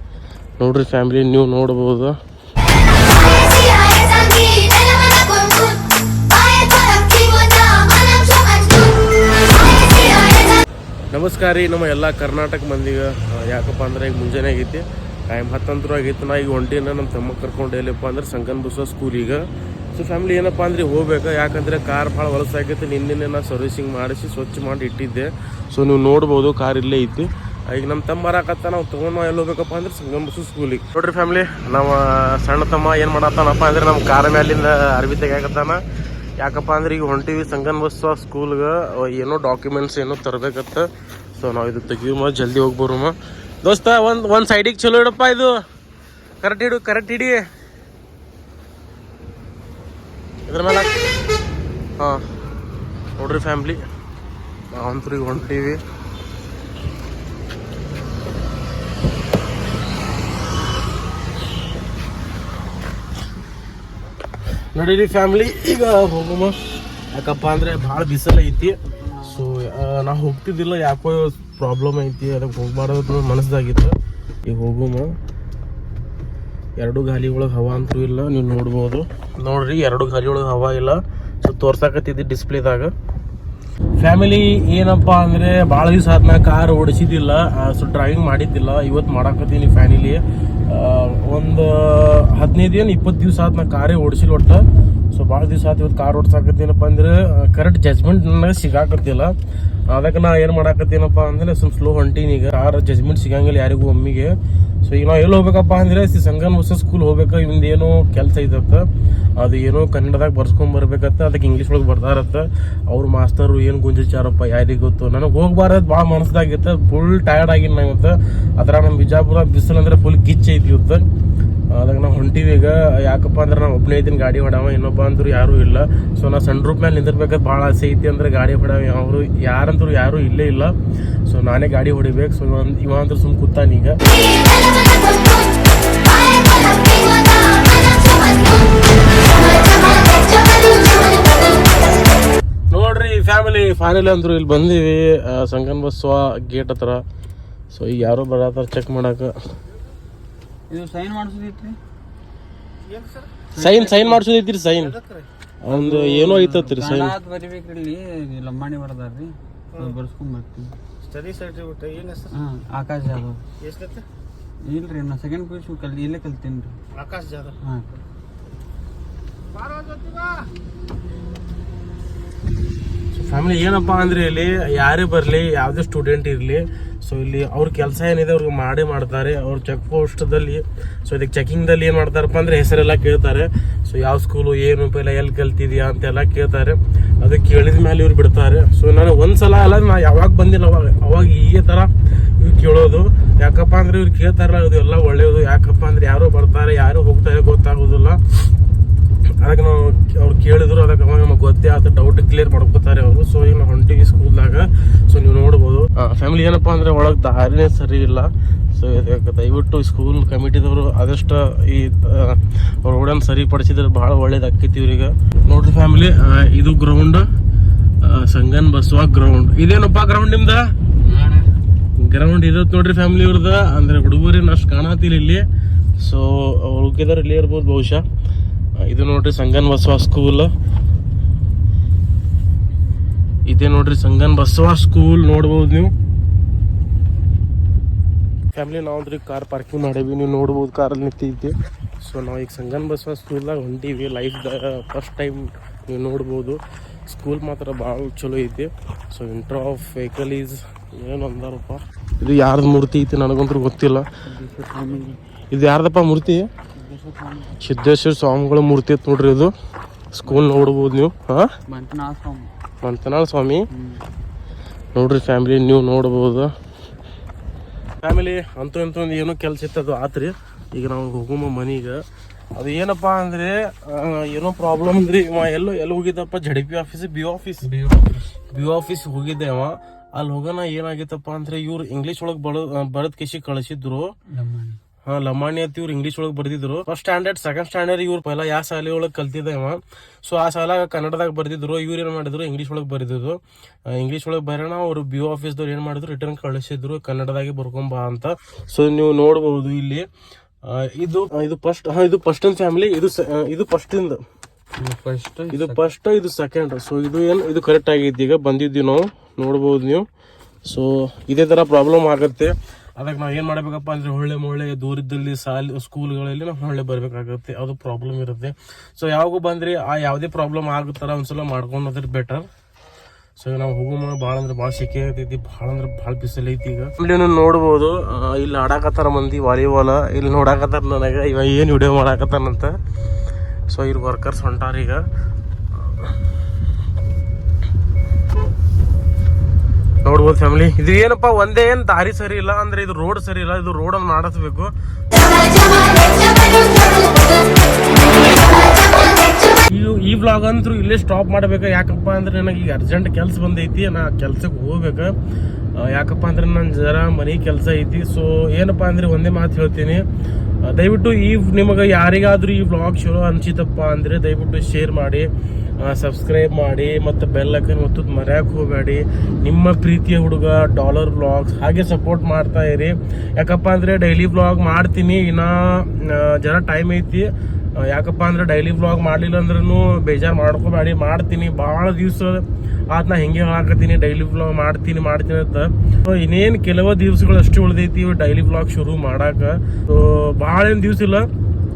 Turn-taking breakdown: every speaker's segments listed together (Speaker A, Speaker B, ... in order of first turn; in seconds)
Speaker A: 0.6-2.2, 11.1-35.8, 36.4-45.5, 46.4-47.4, 50.5-51.0, 52.0-52.2, 53.2-53.8, 54.7-55.8, 64.7-75.1, 76.8-82.9, 84.0-99.3, 99.9-108.9, 109.4-121.0, 121.7-130.7, 131.3-134.0, 142.7-147.0, 147.7-149.3, 153.6-155.0, 155.6-157.1, 173.1-198.2, 199.4-217.2, 218.0-220.7, 222.0-225.4, 226.0-228.0, 228.8-230.5, 233.5-235.9, 238.5-254.1, 255.5-256.5, 257.6-259.5, 260.1-261.5, 262.8-263.6, 264.9-266.5, 268.0-272.0, 272.5-277.7, 278.5-284.1, 285.1-300.1, 300.7-304.2, 305.5-310.0, 310.6-322.5, 323.4-332.7, 333.7-335.0, 340.0-344.7, 349.7-355.1, 355.7-360.0, 360.6-391.3
Speaker B: 68.5-69.5, 150.7-151.8, 153.5-154.2, 155.7-160.8, 162.3-163.4, 164.7-166.8, 221.0-221.5, 254.2-255.2, 256.8-257.6, 260.2-260.9, 261.7-262.5, 263.7-264.0, 277.6-278.3, 284.3-284.8, 304.8-305.8
Speaker C: 152.9-153.2, 161.1-162.3, 163.6-164.0, 166.9-167.5, 169.6-170.5